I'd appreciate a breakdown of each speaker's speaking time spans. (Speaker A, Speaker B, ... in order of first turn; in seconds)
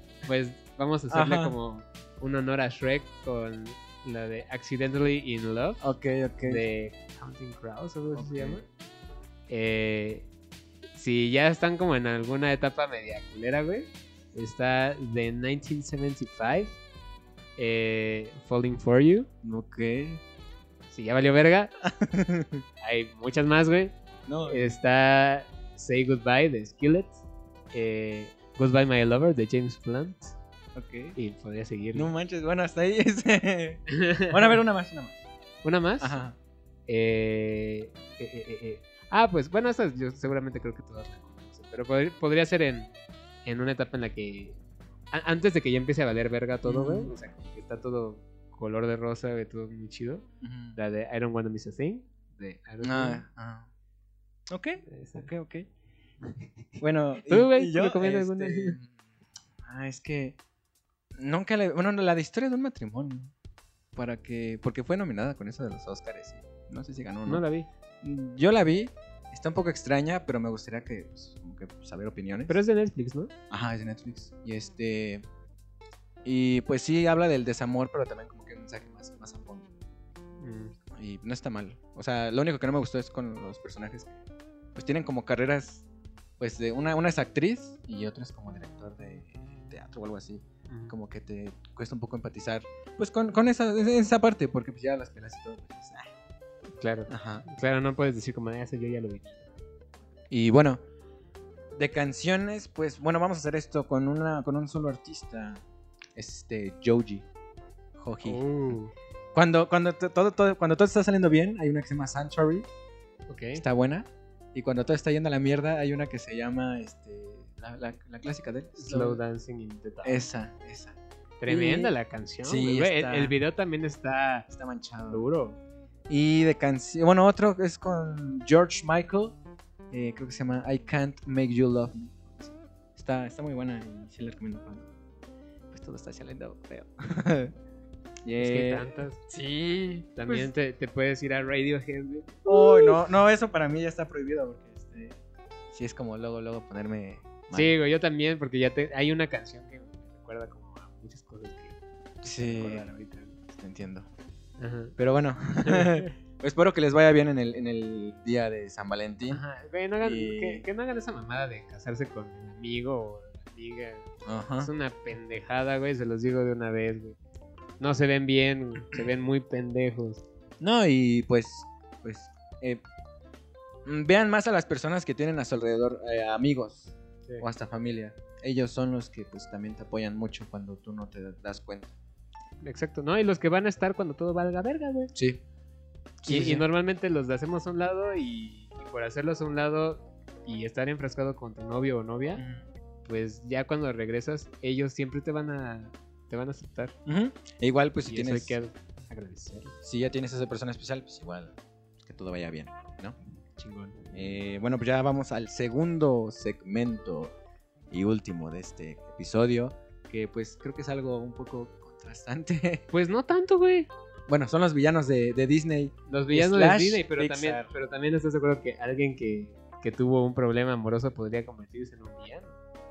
Speaker A: 0.2-5.8, 6.4-8.6, 9.5-10.3, 10.9-16.8, 17.6-19.3, 20.9-21.7, 22.8-23.9, 24.4-27.2, 27.7-30.4, 31.1-32.1, 33.9-34.6, 35.6-36.1, 36.9-42.9, 43.4-44.6, 45.1-53.2, 54.9-55.3, 56.2-58.8, 67.2-67.7, 72.5-73.3, 80.4-80.7, 90.7-90.9, 96.8-99.4, 108.2-108.9, 113.3-113.6, 118.8-120.2, 121.4-124.5, 125.1-125.6, 138.4-139.2, 140.2-143.0, 147.5-153.4, 154.6-154.9, 155.6-156.1, 159.3-164.1, 164.6-167.2, 167.8-170.2, 182.6-185.1, 186.2-192.4, 193.1-196.9, 198.1-199.7, 203.6-204.1, 212.9-213.9, 216.1-222.6
Speaker B: 1.1-1.5, 5.8-6.6, 8.1-8.6, 19.4-20.2, 21.8-22.6, 24.3-24.7, 30.7-31.2, 31.9-35.2, 36.0-36.4, 46.6-47.1, 50.4-50.8, 52.8-53.7, 54.5-55.6, 56.8-58.9, 59.6-60.4, 61.1-63.3, 63.9-67.4, 68.0-72.6, 73.5-75.2, 76.2-79.7, 80.9-84.2, 84.7-85.8, 86.4-96.1, 97.1-97.4, 100.3-100.8, 101.7-105.6, 106.1-107.3, 108.0-108.7, 109.3-112.7, 113.5-119.2, 120.0-121.9, 122.4-123.3, 124.5-125.2, 126.1-129.4, 129.9-134.9, 135.7-137.5, 138.2-140.5, 142.4-145.2, 145.7-147.7, 152.2-152.8, 153.5-154.1, 155.0-159.4, 160.0-160.6, 164.2-164.7, 170.6-172.8, 173.8-181.9, 185.1-185.4, 186.2-186.7, 192.4-192.7, 197.1-198.6, 199.8-203.2, 204.1-207.3, 207.9-212.8, 214.3-217.7